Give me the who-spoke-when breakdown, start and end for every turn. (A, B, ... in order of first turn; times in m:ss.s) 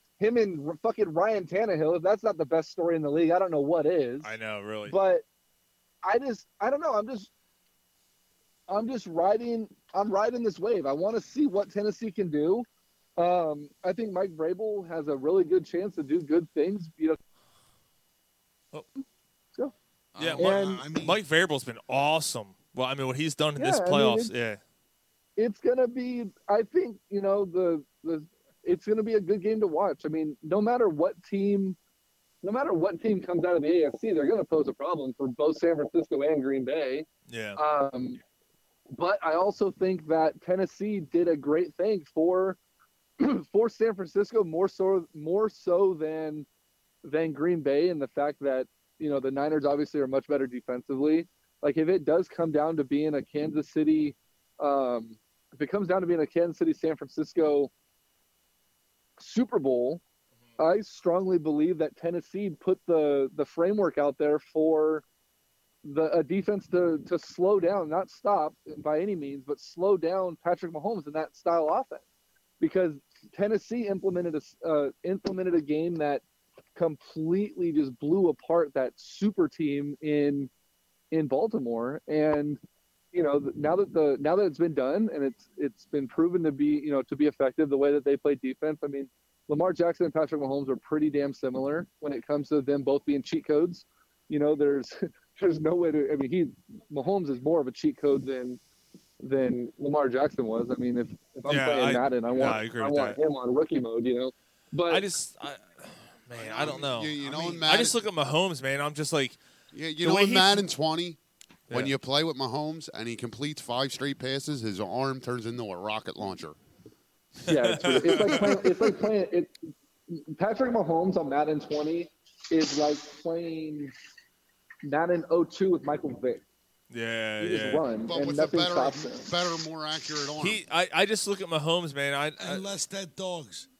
0:00.2-0:05.2 A
0:04.2-0:05.0 B
0:06.0-0:07.3 A
0:08.7-0:12.6 A
0:13.2-0:17.2 A
0:20.1-0:21.2 C
0:20.2-0:24.6 B
0:20.4-0:20.8 A
0:23.6-0:24.3 A
0:25.4-0:31.8 A
0:32.4-0:38.2 A
0:37.3-0:37.6 B
0:38.9-0:42.6 A
0:43.2-0:46.4 A
0:47.0-0:57.7 A
0:59.2-1:00.0 A
1:00.6-1:05.0 A
1:05.8-1:12.0 A
1:12.6-1:16.2 A
1:16.8-1:20.5 A
1:21.1-1:22.6 A
1:23.1-1:38.6 A
1:39.2-1:45.0 A
1:41.5-1:43.2 B
1:44.9-1:49.4 B
1:46.4-1:48.0 D
1:49.7-1:51.2 D
1:50.0-1:50.7 B
1:51.7-1:51.9 B
1:51.7-1:56.6 D
1:57.5-1:58.7 B
1:57.5-1:59.6 A
2:00.1-2:03.9 A
2:04.8-2:06.4 A
2:06.9-2:07.8 B
2:07.4-2:09.3 A
2:08.1-2:10.6 D
2:10.4-2:12.6 B
2:12.4-2:13.7 C